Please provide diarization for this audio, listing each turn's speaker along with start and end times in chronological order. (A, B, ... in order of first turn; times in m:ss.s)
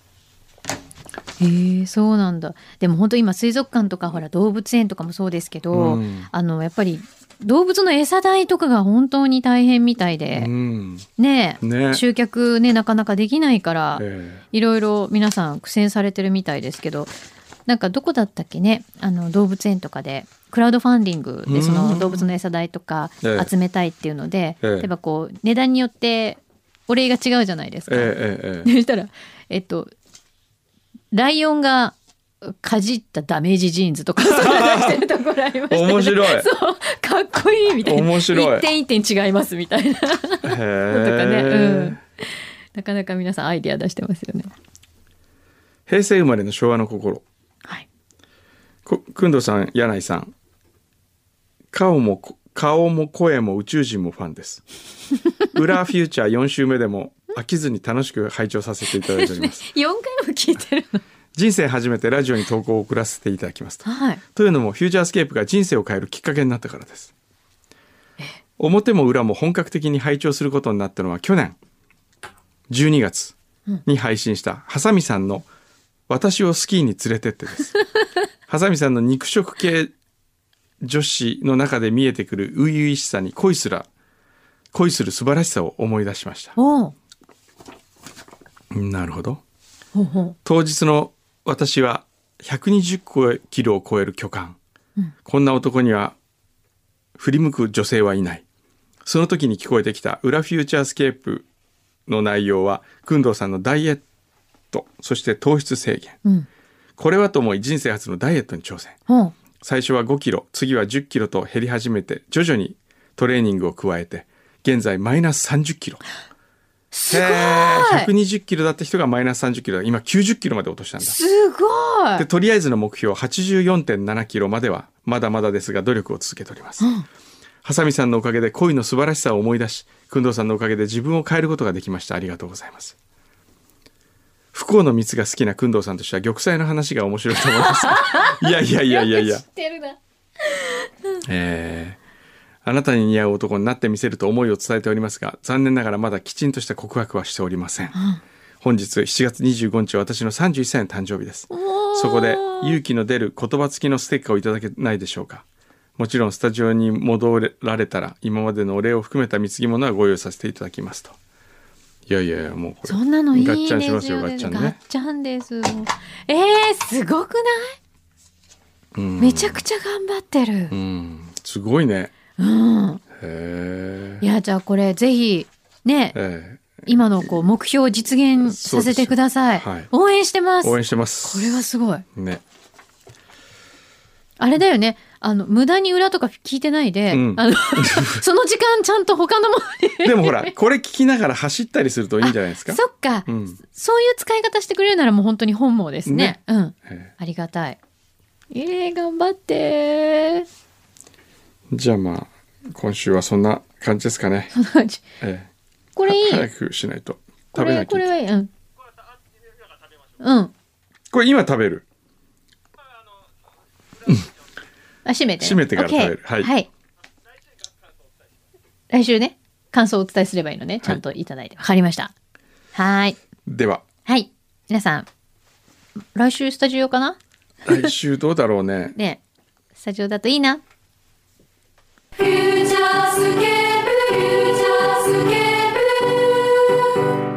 0:01.4-0:10.5 A
0:05.7-0:06.3 B
0:10.3-0:11.1 B
0:11.2-0:17.2 A
0:11.6-0:12.0 B
0:14.0-0:14.4 B
0:17.7-0:29.9 A
0:21.5-0:22.3 B
0:23.2-0:23.5 B
0:24.6-0:24.9 B
0:27.9-0:28.7 B
0:31.1-0:44.5 A
0:34.2-0:35.0 B
0:35.7-0:36.5 B
0:37.8-0:38.7 B
0:40.4-0:42.0 B
0:45.9-0:47.2 B
0:48.8-0:50.3 B
0:51.7-0:54.6 B
0:55.5-0:59.6 B
0:59.0-1:01.0 A
1:01.3-1:07.1 B
1:03.8-1:04.2 A
1:08.6-1:11.6 B
1:12.7-1:15.5 B
1:16.1-1:17.8 B
1:18.5-1:19.9 B
1:20.8-1:23.9 B
1:24.7-1:26.6 B
1:26.6-1:26.9 A
1:28.7-1:29.4 B
1:29.9-1:30.4 A
1:30.4-1:34.6 B
1:35.2-1:36.2 B
1:37.2-1:38.4 B
1:39.0-1:41.5 B
1:42.1-1:44.0 B
1:44.7-1:46.2 B
1:47.0-1:49.0 B
1:49.1-1:49.3 A
1:49.6-1:56.0 B
1:56.9-1:58.1 A
1:57.1-2:01.2 B
2:01.0-2:02.3 A
2:02.2-2:06.9 B
2:06.8-2:07.1 A
2:07.6-2:13.0 B
2:14.5-2:19.4 B
2:17.7-2:21.2 A
2:21.2-2:22.0 B
2:22.6-2:28.0 B
2:27.9-2:28.2 A
2:28.6-2:35.4 B
2:31.5-2:32.8 A
2:36.0-2:41.2 B
2:42.1-2:44.8 B
2:42.9-2:47.8 A
2:49.0-2:49.6 B
2:49.2-2:50.8 A
2:50.7-2:52.1 B
2:52.4-2:53.0 A
2:53.2-2:54.2 B
2:54.2-2:56.2 A
2:56.2-2:56.8 B
2:56.8-3:02.0 A
2:58.4-2:59.9 B
3:00.6-3:02.4 B
3:04.4-3:10.5 A
3:07.1-3:08.2 B
3:10.0-3:13.6 B
3:12.2-3:17.8 A
3:16.1-3:17.1 B
3:18.5-3:20.5 A
3:21.7-3:24.5 B
3:24.5-3:25.0 A
3:25.2-3:25.5 B
3:26.0-3:26.5 A
3:26.0-3:28.1 B
3:27.5-3:28.5 A
3:30.2-3:30.5 A
3:31.1-3:31.8 B
3:35.0-3:36.7 A
3:35.4-3:36.5 B
3:38.9-3:42.1 A
3:42.7-3:43.2 A
3:43.5-3:43.8 B
3:44.1-3:45.1 A
3:46.2-3:47.2 A
3:47.7-3:49.0 B
3:49.0-3:49.2 A
3:49.8-3:50.6 A
3:52.2-3:56.8 A